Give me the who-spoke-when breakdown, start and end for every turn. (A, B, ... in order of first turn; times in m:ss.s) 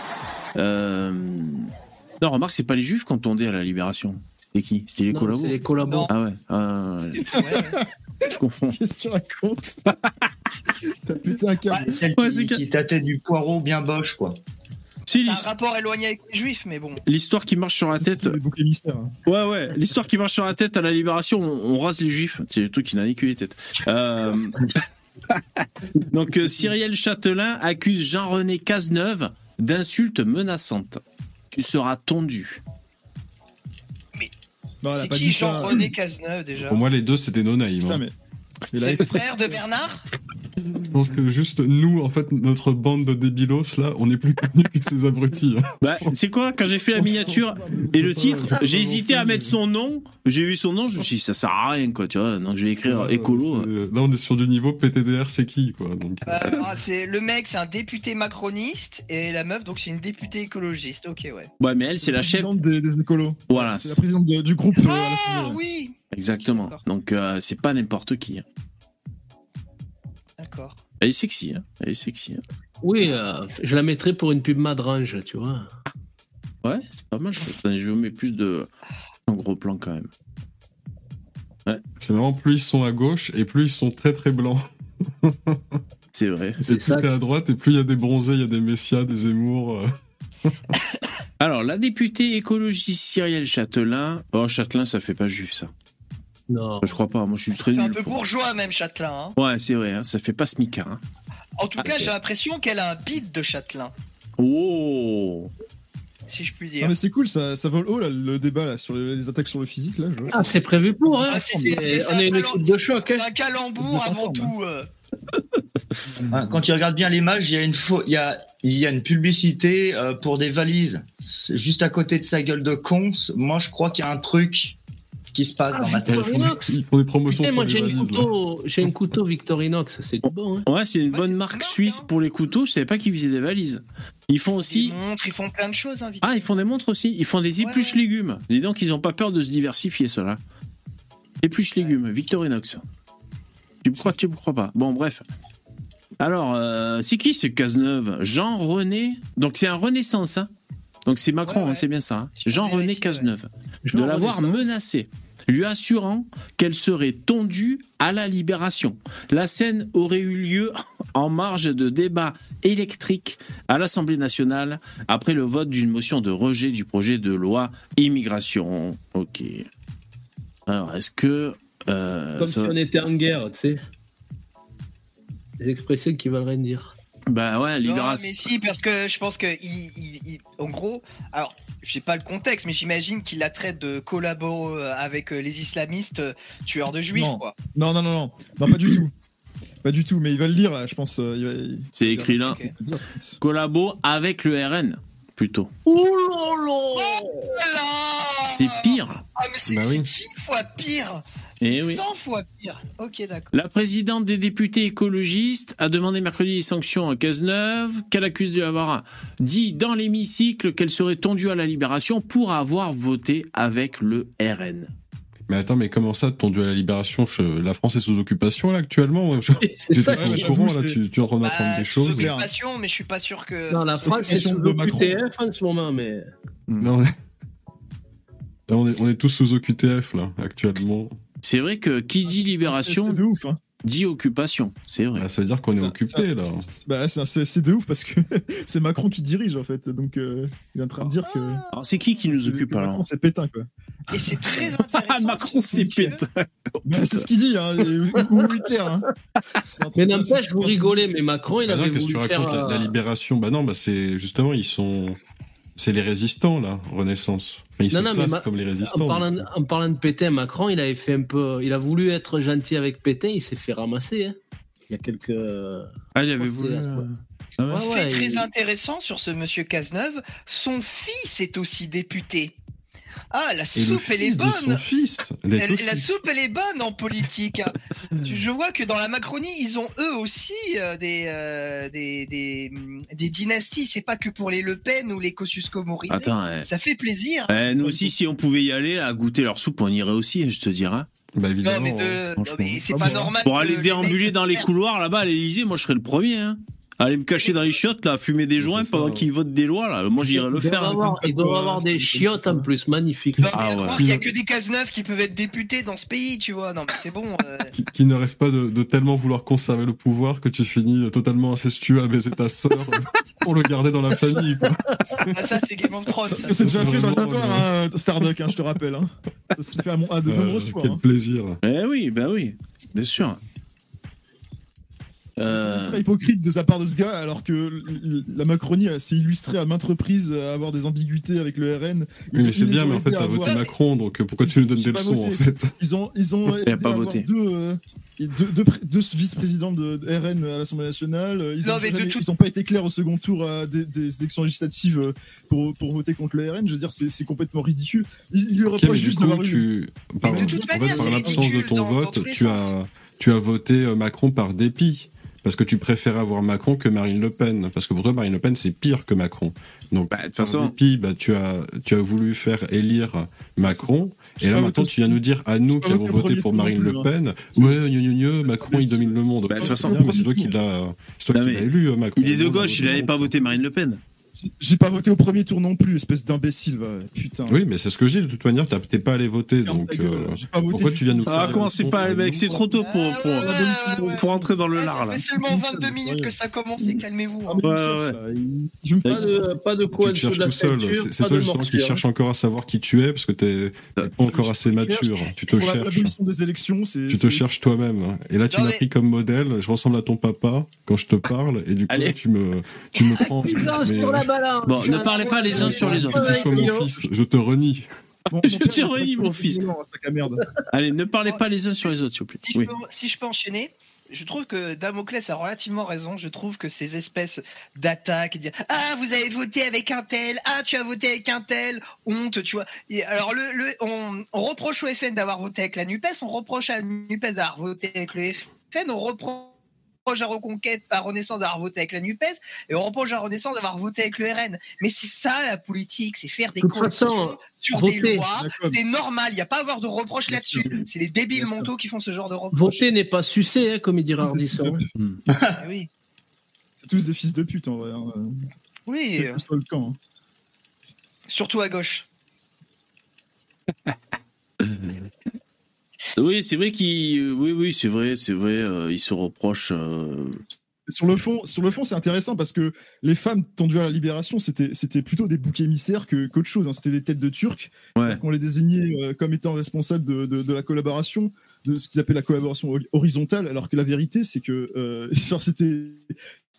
0:00.6-0:07.4 A
0:05.1-0:06.1 B
0:05.8-0:06.1 C
0:07.2-0:07.8 C
0:07.4-0:07.8 D
0:08.2-0:08.8 A
0:08.7-0:09.8 D
0:11.0-0:11.9 D
0:11.9-0:14.4 E
0:12.1-0:12.6 A
0:15.1-0:15.5 A
0:15.1-0:17.0 C
0:17.0-0:18.4 A
0:18.0-0:19.1 D
0:19.2-0:24.7 A
0:25.3-0:31.0 A
0:31.5-0:32.6 A
0:34.8-0:35.9 D
0:34.9-0:36.8 C
0:36.6-0:38.0 F
0:37.8-0:38.1 D
0:38.7-0:39.6 D
0:38.7-0:40.0 C
0:40.8-0:46.2 F
0:45.8-0:53.7 A
0:47.0-0:49.1 D
0:48.0-0:49.4 F
0:52.8-0:56.6 F
0:56.2-1:01.5 C
1:01.6-1:02.5 A
1:02.0-1:05.6 D
1:03.5-1:04.0 A
1:04.7-1:06.8 C
1:06.1-1:08.4 A
1:10.4-1:10.8 C
1:11.0-1:12.4 A
1:12.8-1:15.7 B
1:16.6-1:18.7 A
1:19.3-1:20.1 A
1:22.0-1:25.8 F
1:26.1-1:26.6 A
1:26.6-1:29.9 F
1:26.7-1:27.1 B
1:31.4-1:35.7 A
1:36.5-1:37.0 B
1:36.8-1:38.2 A
1:37.5-1:39.4 C
1:39.4-1:41.0 A
1:41.6-1:43.9 C
1:41.8-1:42.1 A
1:44.4-1:45.5 A
1:46.3-1:46.9 C
1:46.8-1:52.1 D
1:50.3-1:53.2 B
1:51.2-1:54.9 C
1:53.8-1:54.5 D
1:56.3-2:04.8 E
2:05.3-2:06.4 E
2:05.7-2:06.8 B
2:06.0-2:08.3 F
2:07.3-2:10.6 B
2:10.2-2:15.0 A
2:11.1-2:12.0 C
2:14.5-2:16.6 C
2:16.2-2:20.4 A
2:17.6-2:18.0 C
2:21.4-2:22.8 A
2:23.8-2:25.2 A
2:26.2-2:30.5 A
2:31.1-2:49.7 A
2:31.4-2:31.8 C
2:32.4-2:33.3 C
2:33.8-2:34.7 B
2:50.7-2:52.8 A
2:52.4-2:53.8 B
2:55.6-2:56.9 B
2:57.3-2:58.5 A
2:57.8-3:07.6 C
3:07.1-3:09.1 D
3:09.8-3:13.4 D
3:11.9-3:12.6 A
3:12.4-3:12.7 C
3:13.4-3:15.7 A
3:15.8-3:17.5 B
3:16.9-3:23.5 C
3:18.5-3:19.2 A
3:19.7-3:20.1 F
3:21.6-3:22.0 A
3:23.5-3:34.9 A
3:35.5-3:42.3 F
3:39.6-3:40.5 B
3:40.1-3:41.0 D
3:41.4-3:44.4 C
3:41.8-3:42.5 D
3:43.7-3:46.3 B
3:44.0-3:45.2 D
3:46.7-3:46.9 A
3:46.8-3:47.1 F
3:48.7-3:51.1 F
3:51.4-3:53.2 A
3:52.2-3:53.6 D
3:53.8-3:55.2 A
3:55.2-3:56.6 F
3:55.8-4:01.6 D
4:01.3-4:01.7 C
4:01.7-4:03.0 A
4:02.2-4:03.7 D
4:04.1-4:06.2 C
4:04.2-4:04.7 D
4:04.9-4:07.2 A
4:06.8-4:09.0 D
4:09.7-4:10.9 D
4:09.9-4:12.9 B
4:11.6-4:15.2 F
4:15.8-4:19.4 F
4:17.9-4:24.4 B
4:24.9-4:25.9 B
4:26.1-4:27.8 A
4:26.4-4:27.0 B
4:27.7-4:28.4 B
4:27.7-4:32.6 C
4:33.3-4:34.8 C
4:33.7-4:36.1 F
4:35.6-4:47.7 C
4:46.1-4:46.7 A
4:47.5-4:51.1 A
4:47.8-4:48.1 D
4:51.4-4:52.2 F
4:51.6-4:54.7 C
4:52.4-5:01.0 A
4:52.9-4:53.4 D
4:57.3-4:57.8 C
4:58.6-4:59.2 F
5:00.3-5:02.7 D
5:00.6-5:03.6 B
5:03.4-5:07.7 C
5:03.4-5:04.2 F
5:03.5-5:04.1 A
5:07.7-5:15.4 F
5:15.3-5:17.3 C
5:16.2-5:21.0 D
5:16.3-5:17.7 F
5:20.2-5:21.6 F
5:21.6-5:23.4 A
5:25.4-5:26.0 A
5:25.5-5:33.6 D
5:32.3-5:35.7 F
5:33.4-5:33.7 C
5:34.4-5:49.7 D
5:36.6-5:37.3 A
5:41.6-5:42.2 C
5:48.7-6:13.4 F
5:50.2-5:51.6 D
5:50.2-5:52.7 C
6:00.1-6:00.7 A
6:03.6-6:07.8 D
6:08.4-6:10.5 D
6:09.5-6:10.2 A
6:11.3-6:14.0 A
6:14.4-6:17.6 D
6:17.5-6:22.6 F
6:19.6-6:21.9 D
6:21.2-6:25.2 A
6:22.6-6:27.6 C
6:23.2-6:24.5 D
6:25.4-6:29.4 D
6:27.6-6:28.2 A
6:29.0-6:32.0 B
6:29.9-6:36.1 F
6:34.0-6:34.5 A
6:35.5-6:37.4 D
6:37.1-6:44.3 F
6:38.5-6:38.8 C
6:41.9-6:42.2 A
6:43.1-6:46.9 B
6:44.6-6:46.4 A
6:44.9-6:45.7 C
6:45.3-6:46.9 D
6:45.6-6:47.8 F
6:48.3-6:50.4 D
6:48.4-6:49.6 A
6:50.7-6:52.7 A
6:51.2-7:09.5 C
7:10.0-7:22.8 C
7:16.6-7:18.2 B
7:18.3-7:18.8 D
7:20.3-7:20.8 D
7:21.4-7:21.6 D
7:22.5-7:24.8 B
7:24.2-7:24.9 D
7:25.0-7:25.2 A
7:25.3-7:25.6 E
7:25.6-7:25.9 C
7:26.8-7:28.4 D
7:28.9-7:29.4 C
7:29.2-7:30.0 D
7:31.3-7:32.0 C
7:34.6-7:35.0 A
7:36.2-7:40.4 A
7:40.9-7:56.1 D